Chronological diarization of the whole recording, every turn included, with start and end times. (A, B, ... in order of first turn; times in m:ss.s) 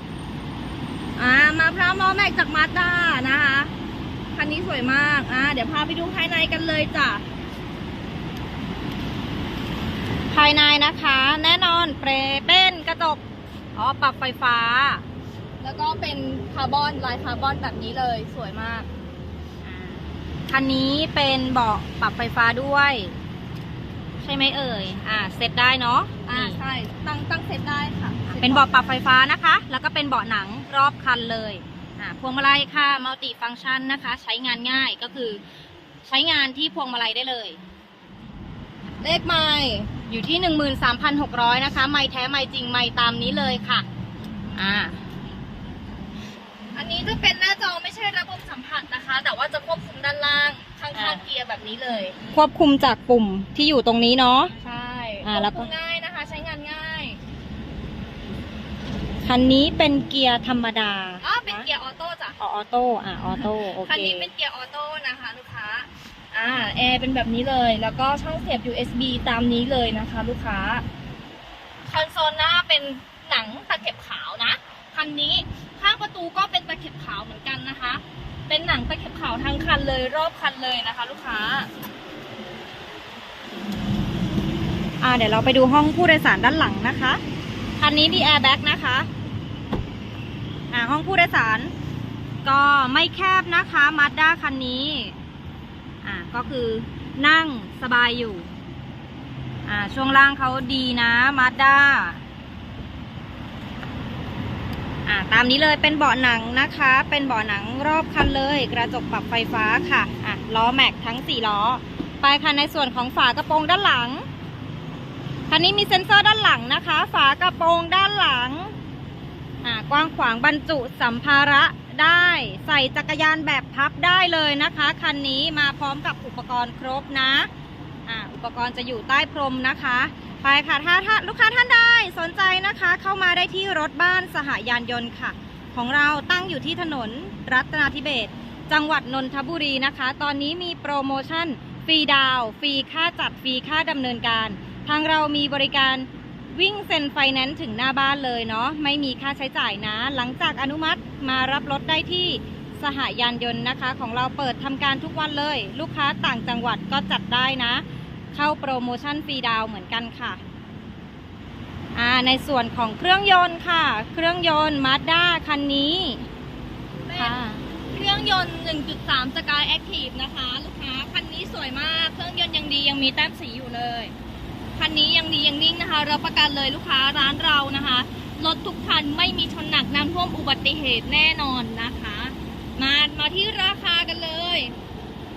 0:01.2-0:03.7 A
0:04.3-0:07.2 A
0:10.3-0:13.2 B
0:13.8-0:15.0 B
0:15.6-0:18.9 A
0:19.6-0:23.1 B
0:24.2-0:26.6 B
0:26.3-0:29.0 A
0:28.3-0:35.4 B
0:36.0-0:37.6 B
0:39.0-0:39.9 A
0:40.1-0:43.9 B
0:44.6-0:45.2 B
0:46.7-0:52.1 A
0:50.9-0:51.3 B
0:52.3-0:54.5 B
0:54.6-0:57.2 A
0:55.2-0:55.7 B
0:59.2-1:01.7 B
1:01.2-1:02.4 A
1:02.4-1:04.3 B
1:03.4-1:10.8 A
1:11.9-1:21.7 A
1:25.0-1:27.2 B
1:27.8-1:29.1 B
1:30.7-1:31.7 B
1:32.4-1:35.2 B
1:36.0-1:38.5 B
1:39.7-1:42.2 B
1:45.0-1:54.3 B
1:55.5-1:58.7 B
1:59.6-2:07.5 B
2:08.1-2:40.4 B
2:41.9-2:46.3 B
2:47.1-2:47.4 A
2:47.1-2:47.6 B
2:47.9-2:54.1 A
2:54.8-3:04.7 A